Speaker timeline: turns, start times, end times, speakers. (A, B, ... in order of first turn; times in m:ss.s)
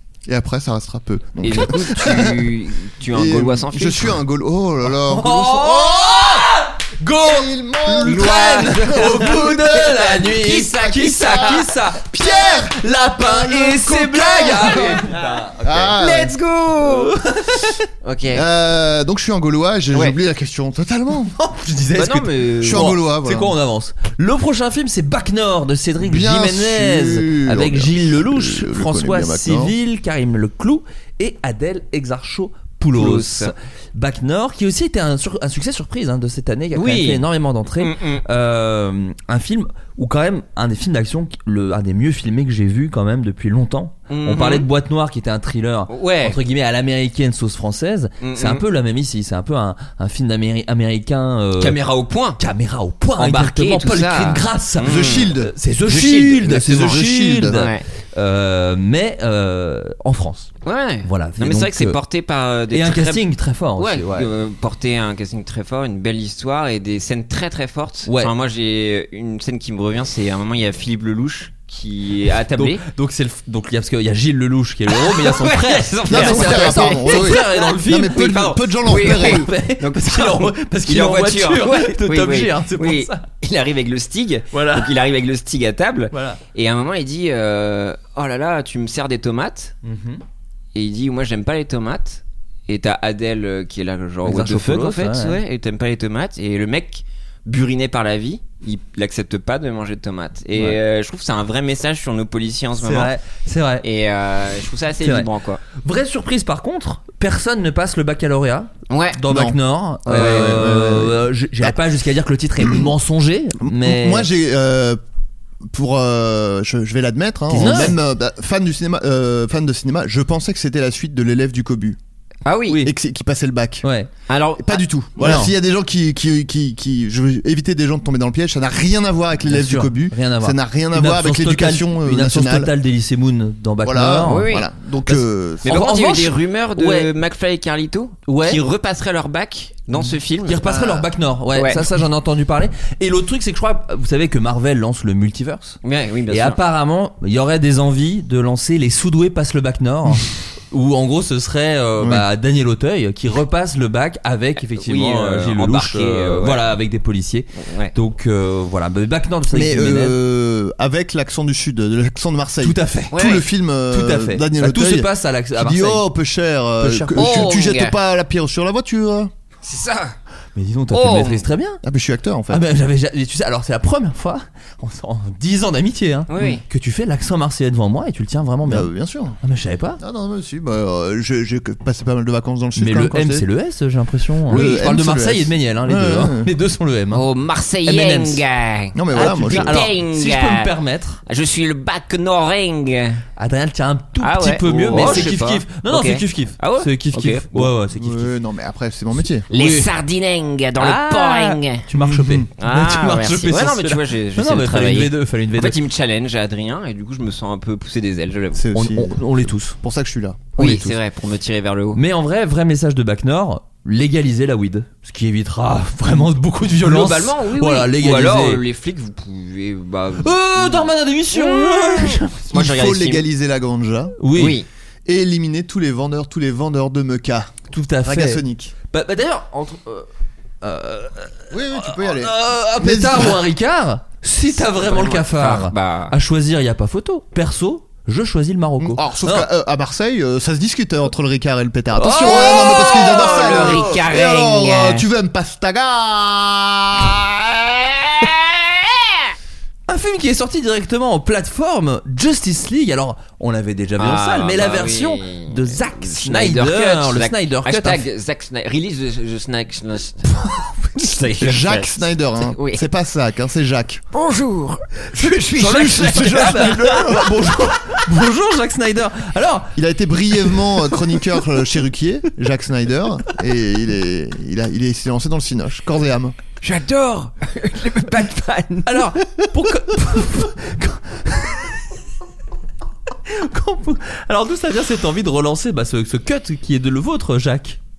0:00.2-0:02.4 A
0:01.4-0:04.2 B
0:03.0-0:06.5 A
0:05.0-0:16.0 C
0:07.2-0:09.7 A
0:08.0-0:11.7 B
0:10.9-0:15.1 A
0:13.4-0:15.4 B
0:15.6-0:16.4 A
0:15.9-0:17.2 B
0:16.8-0:17.8 C
0:18.0-0:18.4 B
0:18.3-0:21.3 A
0:21.3-0:51.8 C
0:21.9-0:22.9 B
0:22.6-0:23.6 A
0:26.0-0:29.8 A
0:32.9-0:33.5 B
0:36.7-0:37.2 B
0:37.8-0:38.2 B
0:44.1-0:44.7 B
0:45.9-0:46.4 B
0:48.2-0:48.6 B
0:51.6-0:52.4 B
0:52.4-1:00.5 C
0:53.2-0:55.3 B
0:54.8-0:57.6 A
0:55.9-0:57.0 B
0:57.5-0:57.8 B
1:00.6-1:03.2 B
1:01.0-1:02.0 C
1:02.7-1:04.3 C
1:03.8-1:12.8 B
1:08.0-1:08.3 C
1:12.6-1:23.2 C
1:14.9-1:29.7 B
1:16.1-1:19.5 A
1:24.5-1:24.9 C
1:26.1-1:26.4 C
1:29.8-1:30.2 C
1:30.7-1:43.1 B
1:34.2-1:35.4 C
1:42.8-1:43.8 C
1:43.8-1:45.6 B
1:45.0-1:54.3 C
1:48.9-1:49.2 B
1:49.3-1:51.8 A
1:50.1-1:50.7 B
1:52.6-1:52.9 A
1:53.6-1:55.0 A
1:55.7-2:02.0 A
1:57.5-1:58.0 C
1:57.5-1:57.9 B
2:02.4-2:02.9 B
2:02.8-2:03.9 A
2:03.8-2:04.1 C
2:04.3-2:05.5 B
2:04.6-2:12.7 A
2:05.2-2:05.5 C
2:09.4-2:14.5 C
2:13.8-2:15.8 A
2:14.2-2:14.7 B
2:15.0-2:17.1 C
2:15.6-2:20.9 B
2:18.3-2:18.6 C
2:20.0-2:25.8 C
2:20.6-2:21.1 A
2:21.5-2:21.9 B
2:25.8-2:26.6 B
2:26.3-2:40.1 C
2:32.0-2:32.2 A
2:34.8-2:36.7 B
2:37.6-2:37.9 B
2:39.5-2:49.3 A
2:42.6-2:43.2 C
2:43.1-2:43.4 B
2:43.9-2:46.0 C
2:46.8-2:47.5 C
2:47.2-2:48.0 B
2:49.6-2:50.1 B
2:50.5-2:51.8 C
2:50.9-2:51.5 B
2:51.8-2:52.6 A
2:52.5-2:58.9 C
2:56.3-2:56.6 B
2:58.6-2:59.4 A
2:59.4-3:00.0 C
3:00.0-3:03.5 A
3:02.8-3:07.2 C
3:04.5-3:06.5 A
3:07.1-3:10.7 B
3:07.8-3:08.4 C
3:08.9-3:09.9 A
3:09.1-3:11.2 C
3:11.3-3:13.2 B
3:13.4-3:18.3 C
3:14.2-3:17.5 B
3:14.9-3:15.3 A
3:17.5-3:19.5 A
3:19.5-3:19.9 C
3:19.5-3:21.8 B
3:20.8-3:25.8 C
3:22.0-3:22.5 A
3:22.6-3:28.7 B
3:28.5-3:30.5 A
3:28.7-3:29.8 C
3:30.6-3:31.0 C
3:30.6-3:32.0 B
3:31.9-3:38.6 C
3:36.8-3:43.2 B
3:40.2-3:42.5 C
3:42.5-3:44.2 A
3:44.2-3:44.6 C
3:44.3-3:44.7 B
3:45.0-3:48.7 A
3:47.7-3:50.1 C
3:50.6-3:59.5 C
3:51.5-3:53.5 A
3:54.8-3:56.2 B
3:58.8-4:07.9 A
4:02.0-4:04.0 C
4:02.2-4:05.0 B
4:08.0-4:09.0 B
4:09.9-4:18.0 C
4:14.0-4:20.3 B
4:20.3-4:21.1 C
4:21.0-4:22.8 B
4:21.4-4:24.0 A
4:24.1-4:27.0 B
4:25.1-4:29.7 C
4:25.6-4:27.6 A
4:29.8-4:36.4 A
4:36.6-4:39.0 B
4:38.8-4:41.8 C
4:43.3-4:47.8 C